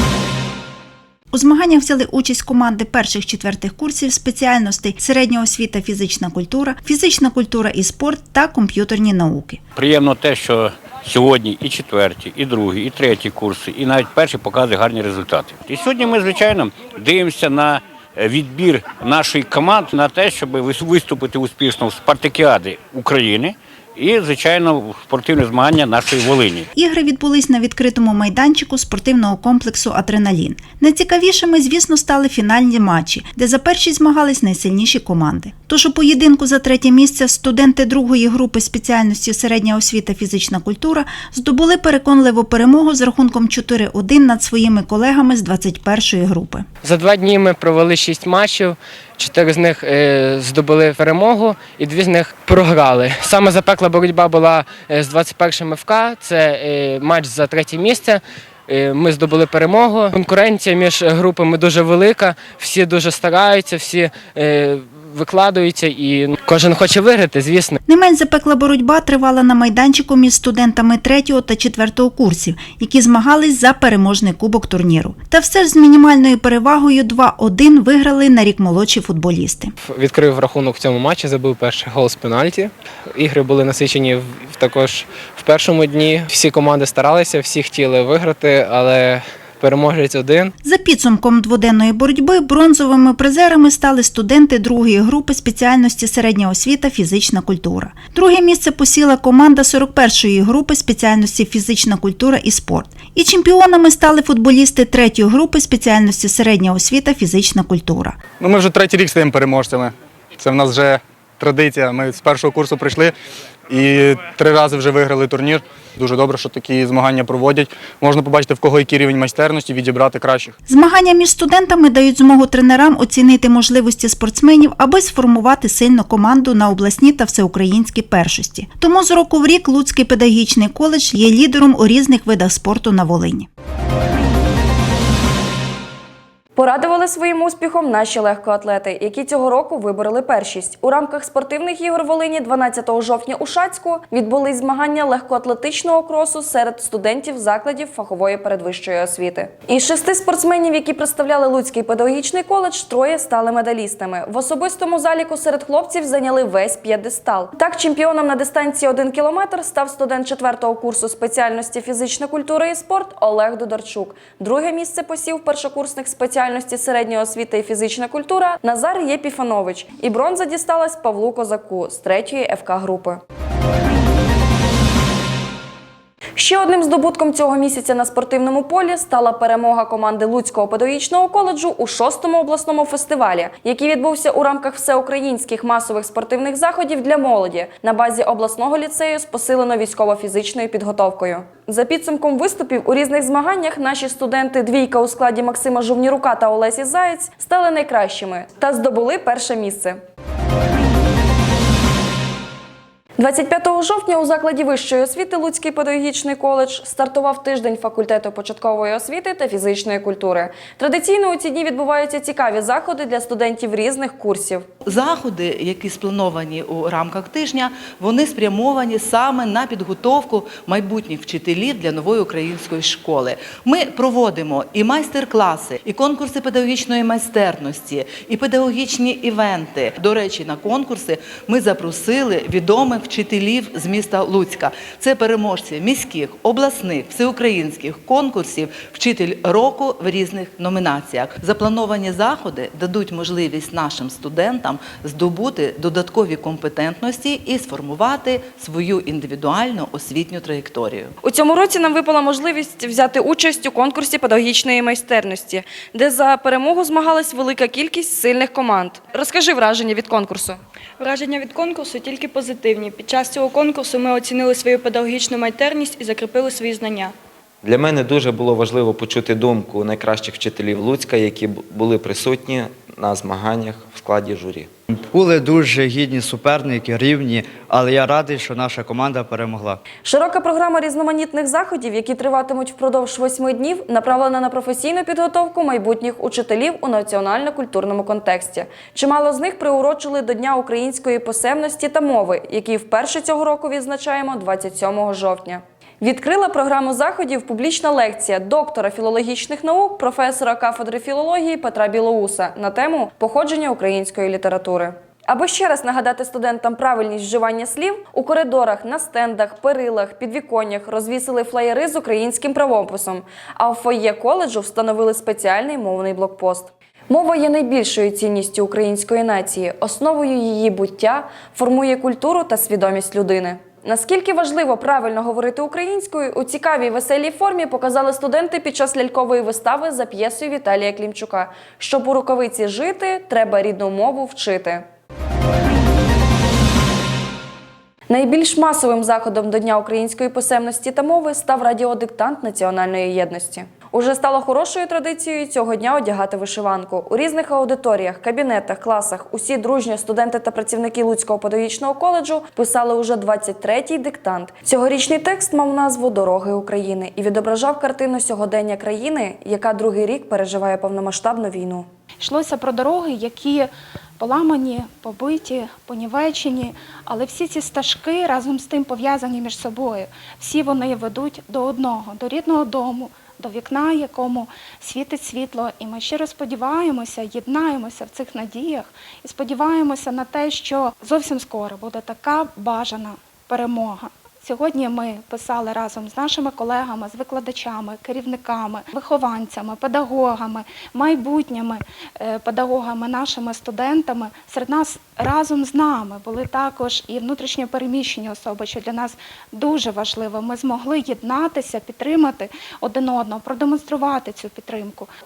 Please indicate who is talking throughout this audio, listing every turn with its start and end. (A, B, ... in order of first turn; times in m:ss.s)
0:01.3-0:09.6 A
0:09.8-0:26.7 B
0:26.7-0:46.6 A
0:46.8-1:07.8 C
1:07.8-1:19.7 A
1:19.8-1:30.5 D
1:30.6-1:48.2 A
1:48.4-1:53.1 E
1:53.7-2:00.5 E
2:00.7-2:13.5 A
2:16.6-2:53.2 F
2:56.4-3:20.0 F
3:23.2-3:34.6 F
3:34.9-4:11.1 G
4:11.2-4:20.6 F
4:21.0-4:27.1 H
4:27.6-4:34.7 I
4:34.9-4:39.8 J
4:40.0-5:34.8 F
5:38.1-6:01.9 F
6:02.2-6:45.1 K